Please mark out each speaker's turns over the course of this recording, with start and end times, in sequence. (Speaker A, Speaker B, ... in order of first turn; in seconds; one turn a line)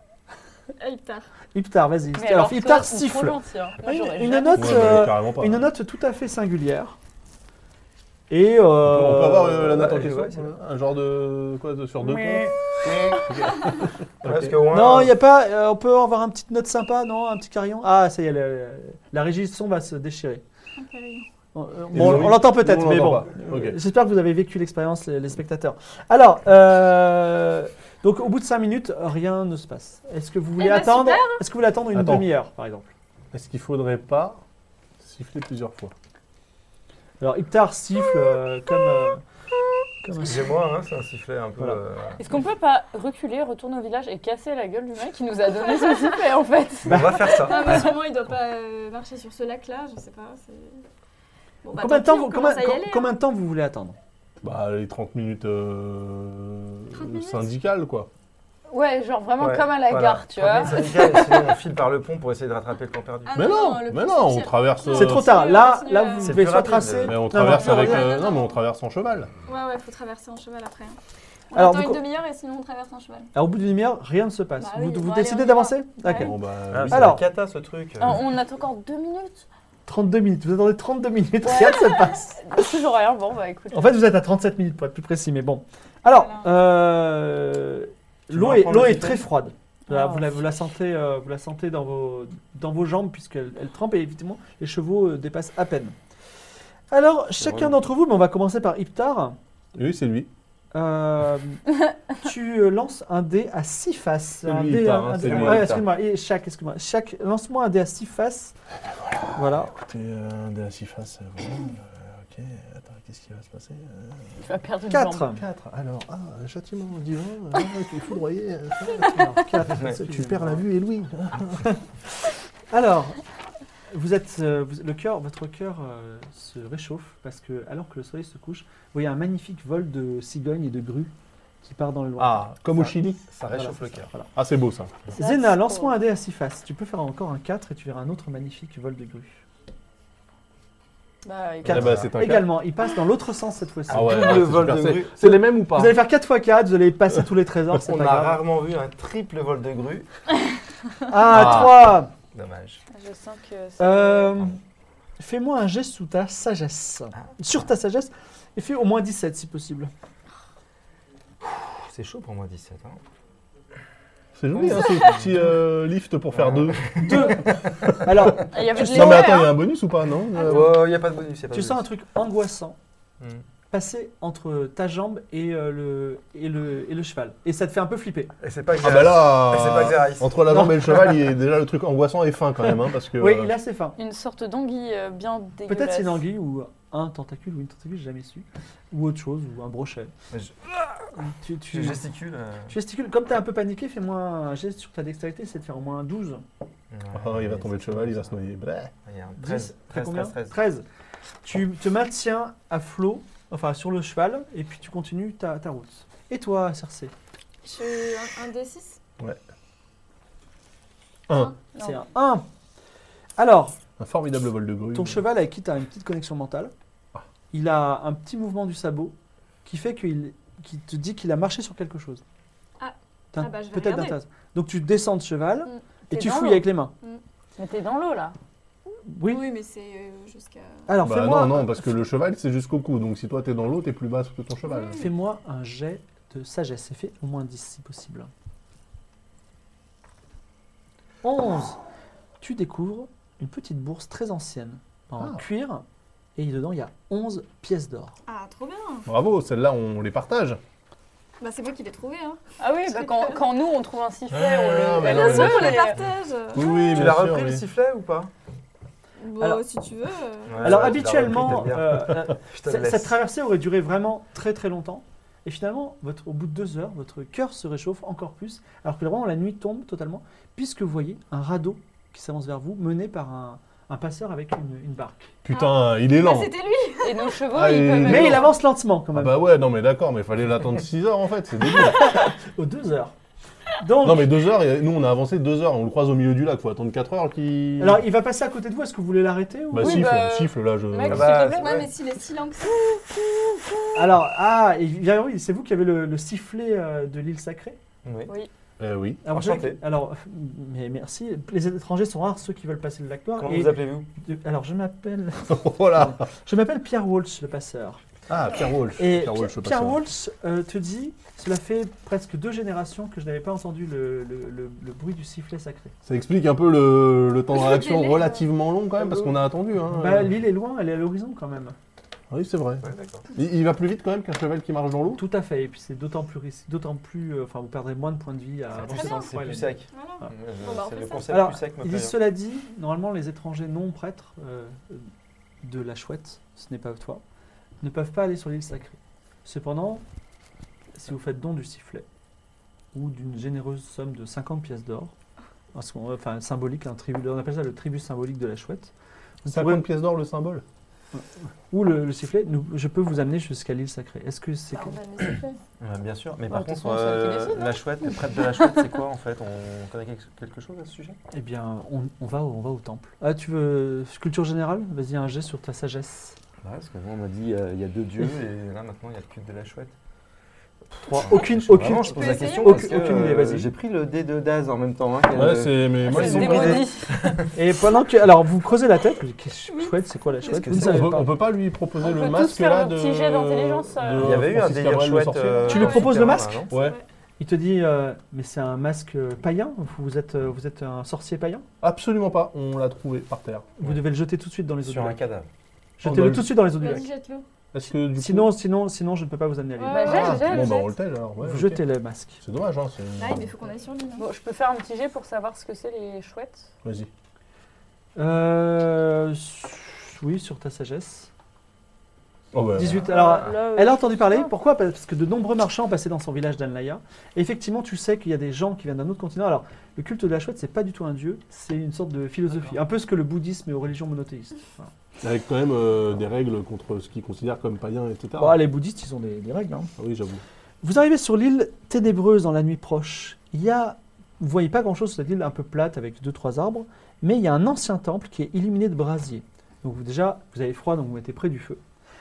Speaker A: 0.8-1.2
Speaker B: 1.5-7.0
Speaker C: 2.2-4.9
Speaker D: 4.5-5.7
Speaker B: 8.3-9.9
Speaker D: 8.8-12.6
Speaker E: 9.7-10.5
Speaker B: 12.0-12.6
Speaker E: 12.8-13.2
Speaker D: 13.1-14.6
Speaker E: 14.2-15.2
Speaker B: 14.7-20.4
Speaker A: 20.8-21.3
Speaker B: 21.5-32.9
Speaker D: 21.9-23.8
Speaker A: 30.6-31.4
Speaker D: 31.9-32.3
Speaker D: 33.3-34.4
Speaker D: 35.0-35.9
Speaker B: 37.2-39.2
Speaker B: 40.0-40.6
Speaker E: 40.2-42.2
Speaker C: 42.2-47.9
Speaker A: 45.5-46.2
Speaker B: 46.9-47.3
Speaker E: 46.9-47.9
Speaker A: 47.2-50.9
Speaker A: 51.6-53.1
Speaker B: 51.7-54.0
Speaker D: 54.4-58.1
Speaker A: 56.9-57.5
Speaker C: 58.7-61.5
Speaker E: 59.4-63.5
Speaker A: 63.3-66.5
Speaker D: 63.3-65.4
Speaker B: 64.9-68.1
Speaker E: 66.2-67.4
Speaker D: 66.9-69.3
Speaker A: 67.6-68.6
Speaker A: 69.5-71.0
Speaker A: 71.5-73.3
Speaker B: 71.5-72.0
Speaker B: 73.3-76.4
Speaker A: 74.6-76.3
Speaker D: 76.2-77.2
Speaker E: 76.7-78.2
Speaker B: 76.9-77.2
Speaker C: 78.0-79.5
Speaker B: 79.9-82.5
Speaker C: 81.4-84.0
Speaker B: 83.7-96.0
Speaker A: 86.1-86.5
Speaker E: 88.3-89.3
Speaker C: 89.9-90.4
Speaker B: 96.9-99.4
Speaker E: 97.4-97.8
Speaker D: 99.8-100.3
Speaker B: 100.7-108.5
Speaker D: 104.4-105.9
Speaker E: 105.3-105.8
Speaker D: 108.9-114.5
Speaker B: 109.3-109.7
Speaker C: 114.5-115.3
Speaker B: 114.9-115.4
Speaker D: 115.3-121.8
Speaker B: 119.0-120.7
Speaker B: 122.7-123.2
Speaker B: 123.9-131.1
Speaker B: 131.6-132.5
Speaker D: 132.2-133.2
Speaker E: 133.3-134.1
Speaker B: 133.5-134.3
Speaker D: 134.3-135.0
Speaker B: 135.1-139.4
Speaker C: 135.1-136.0
Speaker C: 141.2-141.9
Speaker D: 141.6-142.6
Speaker B: 141.7-144.7
Speaker E: 141.7-142.1
Speaker D: 143.9-146.0
Speaker E: 143.9-145.2
Speaker B: 145.2-148.4
Speaker E: 147.8-150.1
Speaker B: 151.1-152.1
Speaker D: 151.3-151.8
Speaker E: 152.3-152.8
Speaker C: 152.9-154.5
Speaker B: 153.8-154.6
Speaker B: 155.2-159.9
Speaker E: 161.4-163.0
Speaker D: 164.4-167.3
Speaker E: 164.6-165.3
Speaker E: 166.3-168.3
Speaker B: 167.0-169.3
Speaker C: 168.5-169.6
Speaker D: 168.7-170.8
Speaker E: 170.4-171.9
Speaker B: 171.5-172.8
Speaker B: 173.7-178.3
Speaker E: 178.4-181.0
Speaker D: 178.8-183.5
Speaker B: 183.2-184.0
Speaker C: 184.0-186.2
Speaker B: 185.7-190.1
Speaker E: 190.3-190.6
Speaker B: 191.2-192.0
Speaker E: 191.7-192.7
Speaker B: 192.7-196.4
Speaker E: 196.9-198.4
Speaker D: 197.1-198.9
Speaker E: 199.0-200.6
Speaker B: 199.4-200.8
Speaker B: 201.4-207.1
Speaker A: 207.6-209.0
Speaker D: 211.3-211.6
Speaker B: 211.8-212.4
Speaker B: 213.4-213.8
Speaker D: 214.0-215.2
Speaker B: 214.9-216.7
Speaker B: 217.5-222.2
Speaker A: 222.8-224.2
Speaker B: 223.3-226.9
Speaker C: 226.1-226.7
Speaker C: 227.6-228.3
Speaker B: 229.1-229.5
Speaker A: 229.2-230.9
Speaker B: 230.9-231.9
Speaker D: 231.0-235.1
Speaker A: 234.6-235.1
Speaker B: 234.9-238.3
Speaker B: 241.2-241.8
Speaker B: 242.4-245.8
Speaker B: 246.4-248.2
Speaker A: 248.3-249.1
Speaker D: 249.1-250.6
Speaker A: 251.4-253.5
Speaker C: 252.6-256.0
Speaker D: 254.3-255.9
Speaker A: 255.0-257.1
Speaker D: 256.5-257.6
Speaker E: 256.6-258.3
Speaker A: 259.2-260.7
Speaker B: 259.4-259.6
Speaker E: 260.5-263.2
Speaker B: 260.6-275.4
Speaker D: 275.4-276.6
Speaker A: 275.5-277.4
Speaker C: 277.0-278.5
Speaker D: 277.5-282.2
Speaker B: 278.0-279.4
Speaker B: 282.0-283.1
Speaker B: 283.8-284.3
Speaker D: 284.0-288.0
Speaker B: 287.8-290.1
Speaker D: 289.7-291.5
Speaker C: 289.8-291.8
Speaker E: 291.1-291.9
Speaker A: 291.3-293.8
Speaker B: 293.9-297.8
Speaker E: 298.0-298.3
Speaker D: 298.8-299.3
Speaker B: 299.2-308.0
Speaker E: 299.3-299.8
Speaker E: 303.4-304.1
Speaker D: 305.5-306.3
Speaker D: 308.3-310.0
Speaker B: 309.0-315.9
Speaker D: 316.1-320.4
Speaker A: 317.5-318.5
Speaker B: 319.1-319.3
Speaker B: 319.9-321.8
Speaker D: 322.3-325.2
Speaker E: 322.8-323.2
Speaker B: 325.2-330.3
Speaker E: 328.7-332.2
Speaker A: 328.8-331.4
Speaker B: 331.3-335.1
Speaker B: 335.6-337.2
Speaker B: 337.8-340.0
Speaker B: 340.9-342.1
Speaker B: 342.9-345.1
Speaker B: 345.7-348.9
Speaker B: 349.4-349.9
Speaker D: 349.5-350.6
Speaker B: 351.1-355.0
Speaker A: 354.7-355.6
Speaker E: 355.8-361.2
Speaker C: 356.5-357.8
Speaker B: 361.3-366.4
Speaker E: 366.6-369.9
Speaker E: 370.9-377.5
Speaker B: 371.0-373.7
Speaker A: 372.0-373.2
Speaker D: 375.3-376.9
Speaker C: 376.1-377.1
Speaker B: 377.5-381.3
Speaker A: 379.7-380.6
Speaker E: 380.4-381.2
Speaker D: 380.7-386.1
Speaker C: 382.0-384.3
Speaker E: 384.2-386.8
Speaker A: 385.6-386.1
Speaker B: 385.7-386.6
Speaker D: 386.7-387.0
Speaker A: 386.7-387.0
Speaker B: 387.4-391.7
Speaker D: 391.8-393.9
Speaker B: 393.8-395.2
Speaker E: 394.8-395.5
Speaker B: 396.0-397.1
Speaker D: 396.0-396.6
Speaker A: 396.7-397.4
Speaker D: 397.7-398.6
Speaker B: 398.1-400.5
Speaker A: 399.8-400.9
Speaker C: 399.9-400.6
Speaker D: 400.1-401.8
Speaker B: 401.4-402.4
Speaker D: 402.4-403.5
Speaker A: 403.2-404.3
Speaker C: 404.2-406.7
Speaker D: 406.8-407.1
Speaker B: 408.2-411.3
Speaker D: 412.5-413.1
Speaker B: 412.8-424.9
Speaker C: 413.0-414.5
Speaker E: 413.2-413.5
Speaker D: 425.2-428.7
Speaker B: 428.4-429.9
Speaker D: 430.0-430.4
Speaker B: 430.8-441.8